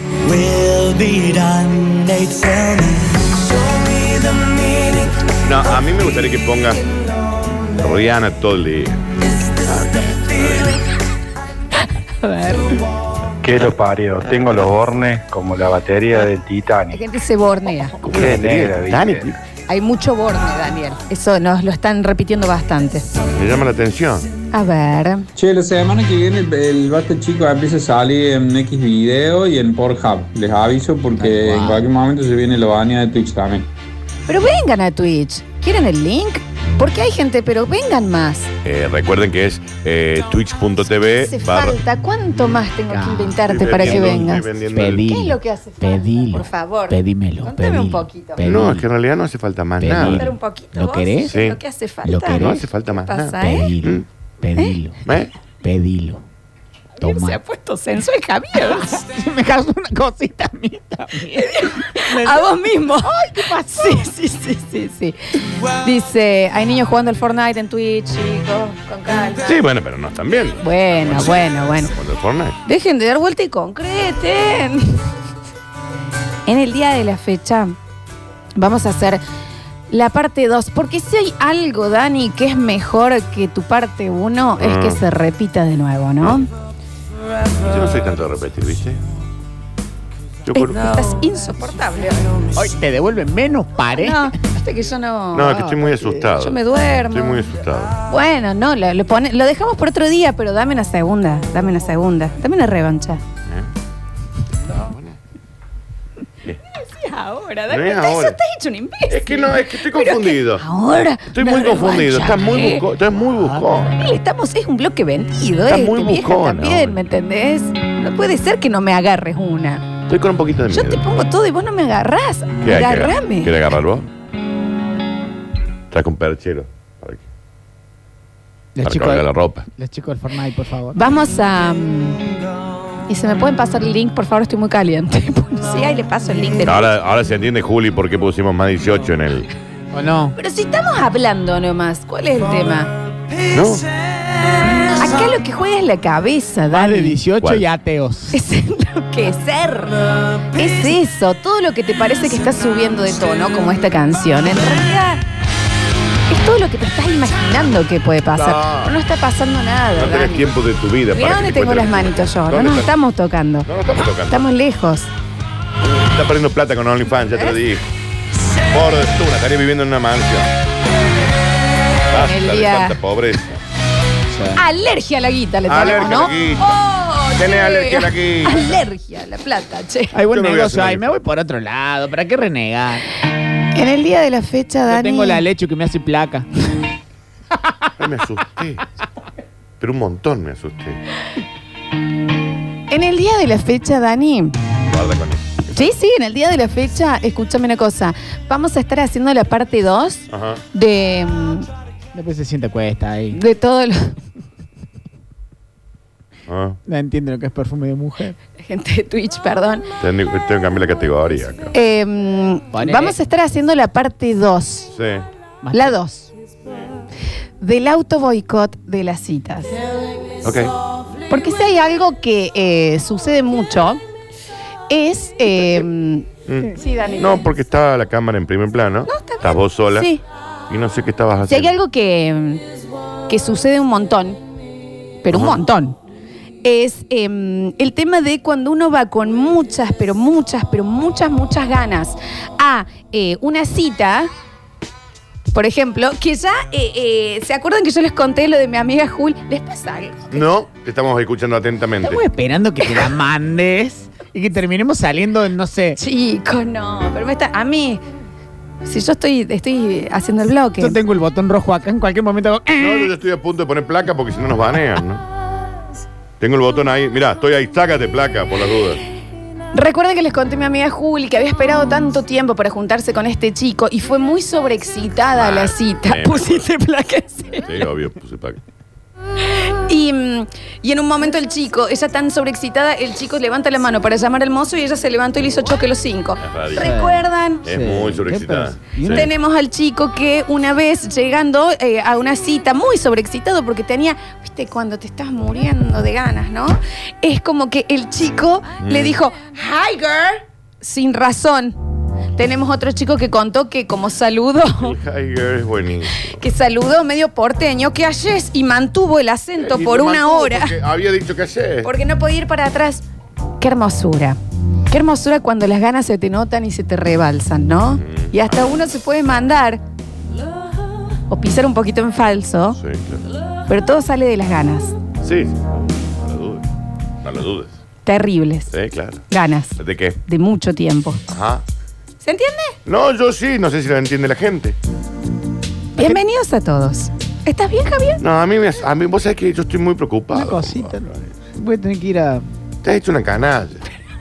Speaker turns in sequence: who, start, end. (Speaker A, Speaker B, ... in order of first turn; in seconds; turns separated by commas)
Speaker A: 0.4-2.8, Speaker B: 5.4-6.8, Speaker B: 7.8-9.0, Speaker B: 9.6-10.8, Speaker C: 12.2-12.8, Speaker D: 13.4-16.9, Speaker C: 16.9-18.1, Speaker B: 18.0-19.4, Speaker D: 18.1-19.4, Speaker C: 19.7-23.1, Speaker B: 23.4-24.3, Speaker C: 24.5-25.3, Speaker E: 25.4-33.7, Speaker A: 31.2-31.8, Speaker C: 34.3-38.5, Speaker B: 38.6-41.8, Speaker C: 41.2-44.5, Speaker A: 42.9-48.9, Speaker B: 43.5-45.0, Speaker C: 45.0-48.4, Speaker B: 48.4-50.3, Speaker A: 49.8-51.3, Speaker C: 50.0-53.7, Speaker B: 51.2-51.6, Speaker A: 52.0-52.6, Speaker B: 52.3-54.0, Speaker A: 53.4-55.0, Speaker B: 55.1-55.3, Speaker A: 55.6-56.2, Speaker A: 57.0-57.4, Speaker C: 57.0-58.9, Speaker A: 58.7-64.0, Speaker C: 61.3-69.5, Speaker B: 69.4-72.6, Speaker C: 70.6-71.9, Speaker C: 72.7-75.0, Speaker C: 76.5-77.8, Speaker C: 78.6-79.2, Speaker C: 79.9-86.5, Speaker B: 84.6-85.0, Speaker B: 86.2-86.5, Speaker B: 87.7-89.0, Speaker B: 90.5-90.8, Speaker C: 90.5-92.3, Speaker A: 92.5-94.3, Speaker C: 93.9-95.6, Speaker B: 95.3-96.6, Speaker A: 95.5-96.2, Speaker C: 96.4-97.4, Speaker B: 97.1-97.9, Speaker C: 98.1-103.2, Speaker B: 104.9-105.2, Speaker C: 106.7-112.8, Speaker B: 107.7-108.4, Speaker B: 109.1-110.6, Speaker B: 111.2-113.9, Speaker C: 113.6-119.9, Speaker B: 115.7-117.0, Speaker B: 120.1-121.0, Speaker C: 120.7-123.5, Speaker B: 122.6-124.1, Speaker B: 125.9-127.2, Speaker A: 128.8-131.0, Speaker B: 128.8-129.7, Speaker C: 130.9-132.2, Speaker C: 133.1-136.9, Speaker B: 136.6-139.5, Speaker A: 139.9-140.3, Speaker C: 140.4-142.9, Speaker B: 143.5-143.8, Speaker C: 144.9-147.2, Speaker A: 146.7-148.3, Speaker B: 147.4-147.7, Speaker C: 148.3-150.0, Speaker C: 150.6-155.2, Speaker C: 156.3-160.5, Speaker B: 158.3-158.9, Speaker B: 160.0-162.9, Speaker C: 161.1-165.1, Speaker B: 163.7-164.5, Speaker B: 165.8-167.9, Speaker B: 168.7-170.5, Speaker C: 172.1-173.0, Speaker B: 172.1-173.6, Speaker A: 174.3-174.6, Speaker C: 174.5-180.1, Speaker B: 175.7-176.8, Speaker B: 177.3-178.8, Speaker A: 180.1-183.1, Speaker B: 180.3-181.1, Speaker C: 183.7-185.4, Speaker A: 184.9-186.5, Speaker B: 188.0-188.8, Speaker B: 189.8-191.0, Speaker C: 192.9-194.6, Speaker B: 194.9-195.6, Speaker C: 195.7-201.7, Speaker B: 200.3-200.6, Speaker A: 202.1-203.4, Speaker C: 203.3-204.1, Speaker B: 206.5-206.8, Speaker A: 206.9-208.3, Speaker C: 208.6-209.8, Speaker B: 210.0-211.7, Speaker C: 211.7-214.9, Speaker A: 212.7-213.2, Speaker B: 214.9-215.2, Speaker A: 215.6-215.9, Speaker C: 215.7-216.3, Speaker C: 217.6-219.7, Speaker B: 220.4-220.7, Speaker C: 221.3-224.0, Speaker C: 224.9-227.4, Speaker B: 225.6-225.8, Speaker B: 226.5-230.1, Speaker C: 229.1-230.2, Speaker B: 230.7-231.8, Speaker C: 231.5-232.6, Speaker C: 233.3-234.4, Speaker C: 235.2-236.0, Speaker B: 235.3-235.6, Speaker C: 236.6-244.3, Speaker C: 245.5-250.4, Speaker B: 250.3-252.2, Speaker A: 252.0-256.0, Speaker C: 252.8-253.1, Speaker C: 256.0-258.0, Speaker C: 258.8-261.0, Speaker A: 260.8-263.1, Speaker B: 262.8-265.2, Speaker B: 266.4-269.0, Speaker C: 269.7-277.7, Speaker B: 275.3-276.7, Speaker B: 277.6-278.6, Speaker C: 279.6-287.7, Speaker B: 286.4-286.9, Speaker A: 286.8-289.3, Speaker B: 287.6-289.3, Speaker C: 289.1-301.8, Speaker B: 298.8-299.2, Speaker C: 302.4-304.9, Speaker B: 304.7-306.4, Speaker C: 306.2-310.7, Speaker B: 309.6-311.9, Speaker C: 311.8-313.0, Speaker C: 313.6-314.4, Speaker C: 314.9-319.8, Speaker B: 318.0-318.3, Speaker C: 321.3-322.8, Speaker B: 322.8-323.2, Speaker C: 323.7-324.9, Speaker B: 325.2-326.7, Speaker B: 327.2-327.7, Speaker C: 328.1-328.7, Speaker B: 328.7-329.2, Speaker C: 329.3-331.2, Speaker B: 329.8-330.2, Speaker B: 331.3-331.6, Speaker C: 332.2-332.8, Speaker B: 332.8-334.8, Speaker C: 335.9-338.2, Speaker B: 338.2-341.0, Speaker A: 340.3-342.5, Speaker B: 342.8-343.8